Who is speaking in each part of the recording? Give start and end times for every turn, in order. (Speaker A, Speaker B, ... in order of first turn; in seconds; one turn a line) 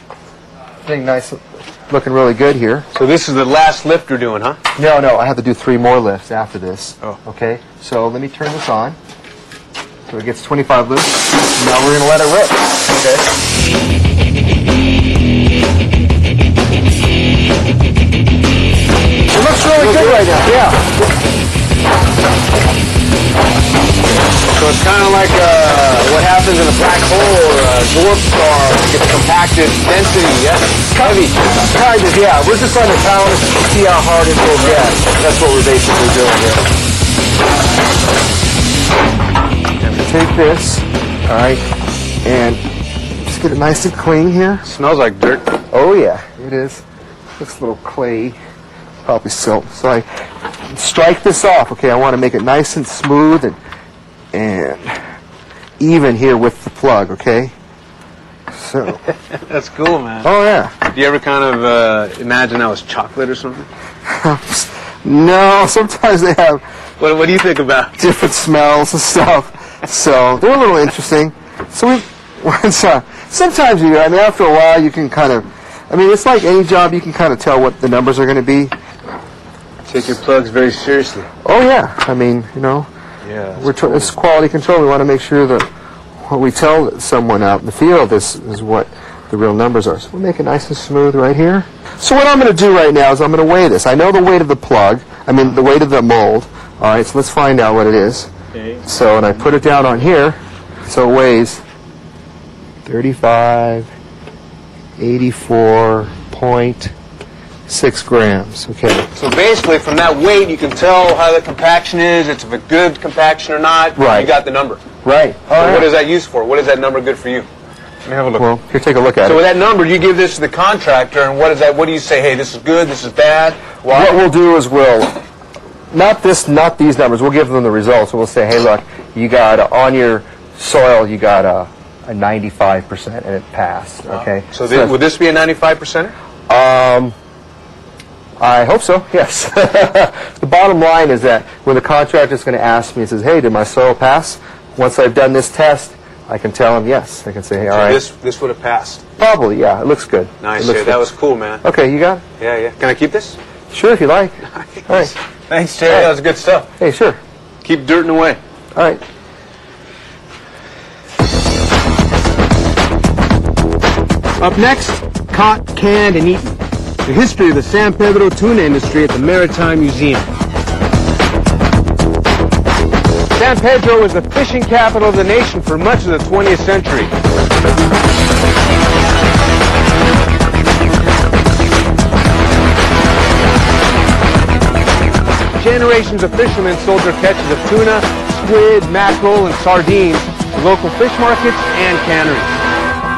Speaker A: 0.8-2.9
Speaker B: 2.9-4.6
Speaker A: 4.8-9.0
Speaker A: 10.1-13.3
Speaker A: 19.3-21.0
Speaker B: 19.8-20.7
Speaker B: 24.5-31.5
Speaker A: 30.9-36.7
Speaker B: 34.6-34.9
Speaker A: 39.9-41.6
Speaker A: 42.2-42.6
Speaker A: 43.2-44.6
Speaker B: 44.6-45.5
Speaker A: 45.7-46.8
Speaker A: 47.4-48.4
Speaker A: 49.0-50.0
Speaker A: 50.7-53.6
Speaker A: 54.3-55.0
Speaker A: 55.8-57.5
Speaker A: 58.5-59.0
Speaker B: 59.3-60.3
Speaker A: 60.2-60.8
Speaker B: 60.8-63.7
Speaker A: 64.1-66.6
Speaker B: 67.0-67.9
Speaker A: 68.0-78.7
Speaker B: 79.9-81.3
Speaker A: 81.4-82.9
Speaker B: 83.2-84.1
Speaker A: 83.6-85.7
Speaker A: 86.2-98.3
Speaker A: 98.8-101.6
Speaker A: 102.8-103.9
Speaker A: 105.0-106.9
Speaker A: 107.7-109.1
Speaker B: 109.1-114.8
Speaker A: 114.0-114.3
Speaker A: 115.0-115.9
Speaker B: 115.5-117.5
Speaker B: 118.0-118.5
Speaker A: 118.4-119.4
Speaker B: 119.2-124.2
Speaker A: 123.9-125.2
Speaker A: 125.9-134.9
Speaker B: 134.1-136.1
Speaker A: 136.5-137.1
Speaker A: 138.4-148.0
Speaker B: 147.7-149.0
Speaker A: 149.2-151.0
Speaker B: 150.4-151.6
Speaker A: 151.6-152.2
Speaker B: 152.4-153.4
Speaker A: 153.7-155.1
Speaker B: 155.5-156.7
Speaker A: 156.8-157.2
Speaker B: 157.6-158.4
Speaker A: 158.7-159.0
Speaker B: 164.4-170.3
Speaker B: 173.3-177.1
Speaker B: 185.6-192.6